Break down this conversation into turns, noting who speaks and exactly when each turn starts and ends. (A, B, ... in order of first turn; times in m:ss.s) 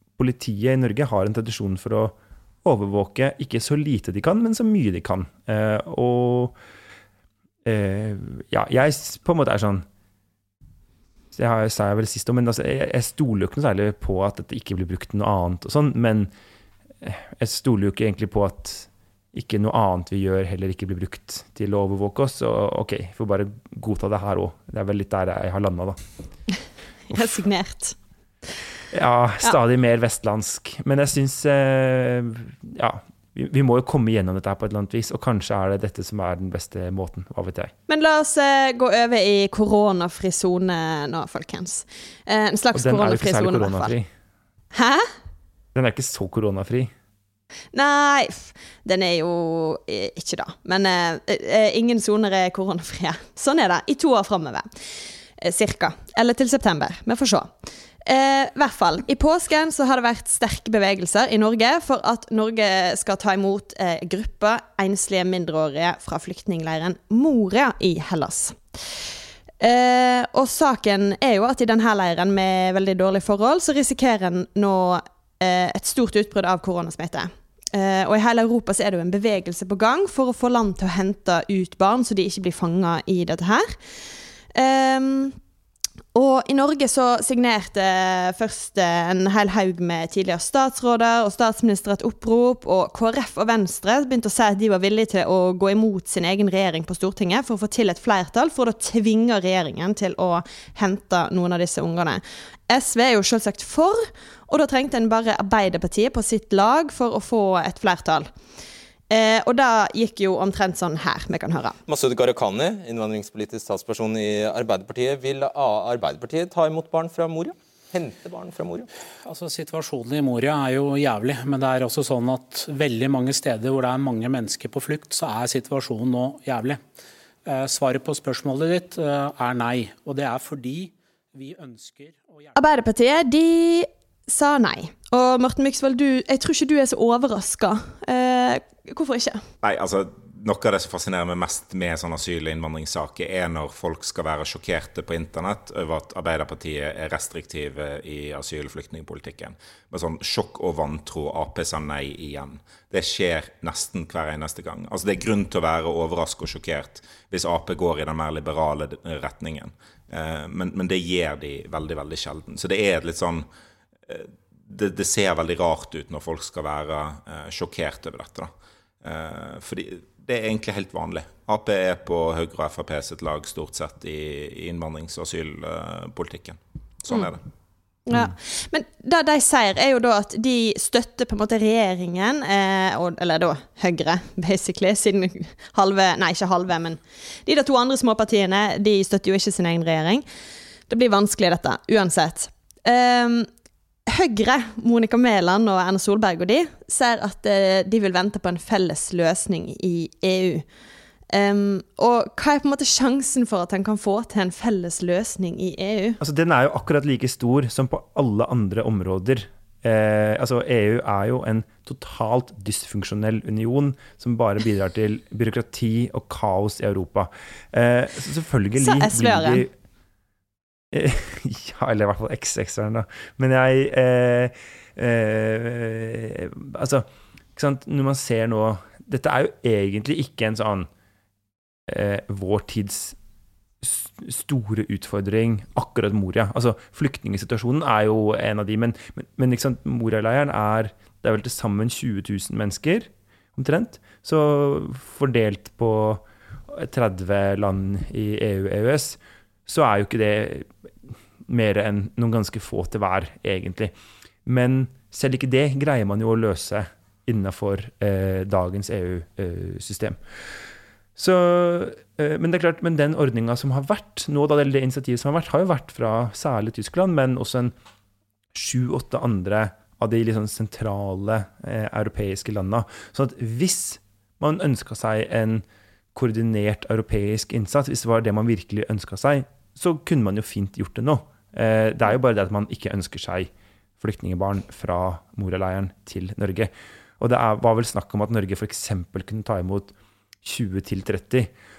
0:00.2-0:06.6 A
0:07.6-0:09.9 A
0:11.3-0:16.3 A
0:17.0-0:26.0 A
0:27.1-0:28.0 B
0:27.1-0:27.4 A
0:28.9-0:37.7 A
0:37.9-0:43.9 B
0:42.8-0:44.1 A
0:44.7-0:45.1 B
0:45.8-0:46.9 A
0:47.7-0:54.7 B
0:55.4-0:57.5 B
0:58.1-1:09.0 B
1:09.6-1:23.8 B
1:24.6-1:25.4 B
1:26.2-1:48.3 B
1:49.1-1:51.8 B
1:51.9-1:58.9 C
1:59.2-2:06.8 D
2:07.4-2:12.6 D
2:12.6-2:19.4 B
2:19.6-2:43.5 E
2:44.1-2:48.5 E
2:49.0-2:57.4 E
2:58.1-3:10.3 B
3:10.9-3:13.5 B
3:14.1-3:20.6 B
3:21.3-3:26.2 B
3:26.2-3:39.7 A
3:38.8-3:39.6 B
3:40.9-3:50.9 A
3:51.9-3:53.2 A
3:53.8-4:13.9 A
4:14.5-4:20.2 A
4:21.2-4:27.8 A
4:28.5-4:51.5 A